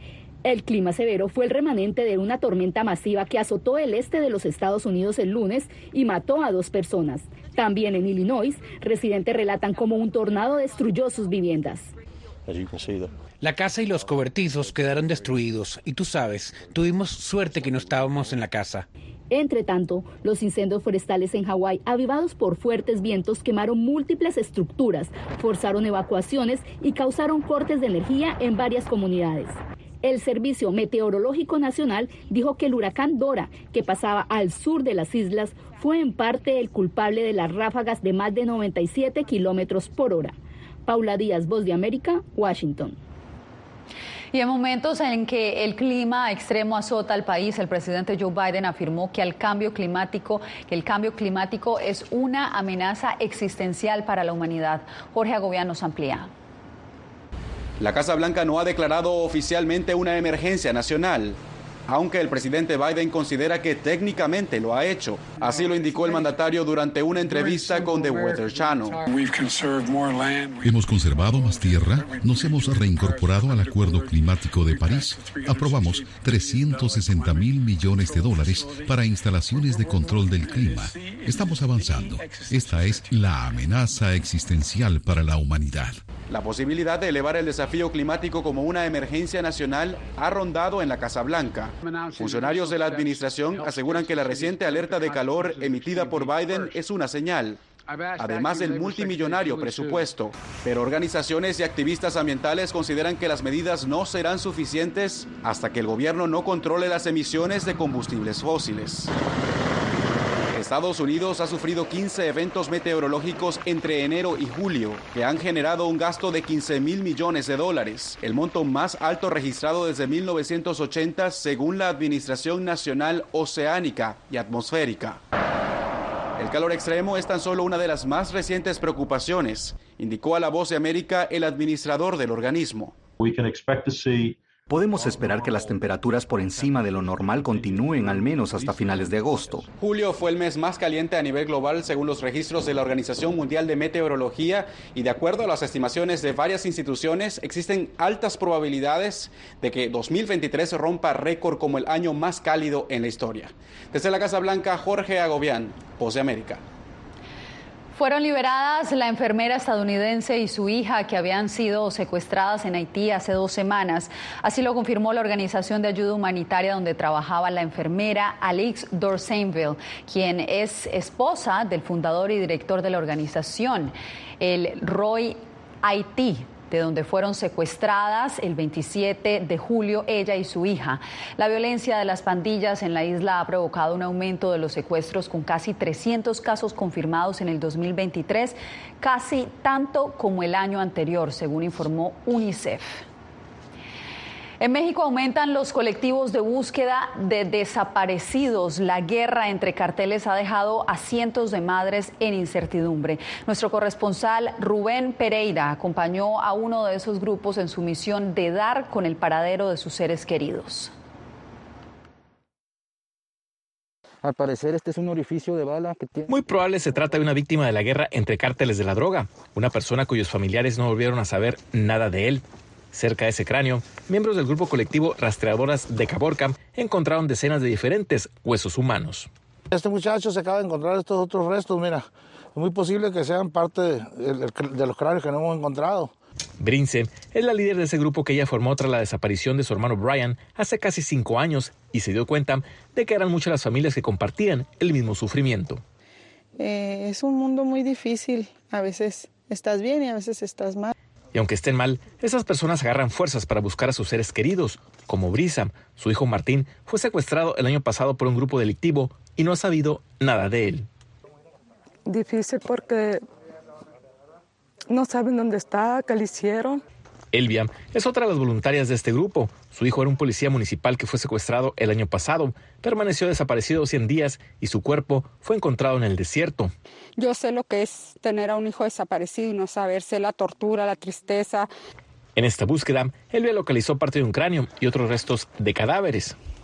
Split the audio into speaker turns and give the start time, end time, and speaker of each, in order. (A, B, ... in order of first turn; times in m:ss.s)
0:00.4-0:11.9 A
0:13.7-0:18.8 B
0:19.3-0:40.3 A
0:40.9-0:43.0 A
0:44.3-0:56.3 C
0:57.8-1:09.0 D
1:10.6-1:26.0 E
1:26.3-1:37.6 D
1:38.2-1:49.1 D
1:50.5-2:05.2 D
2:06.4-2:12.9 D
2:13.2-2:19.6 F
2:19.8-2:36.6 D
2:37.9-3:13.0 C
3:14.6-3:30.9 C
3:34.2-3:36.3 G
3:36.3-3:42.4 H
3:42.9-3:49.3 H
3:49.7-3:56.1 I
3:56.6-4:05.8 H
4:06.6-4:10.9 J
4:11.3-4:20.8 H
4:27.3-4:36.7 H
4:37.2-4:41.7 K
4:42.4-4:46.4 H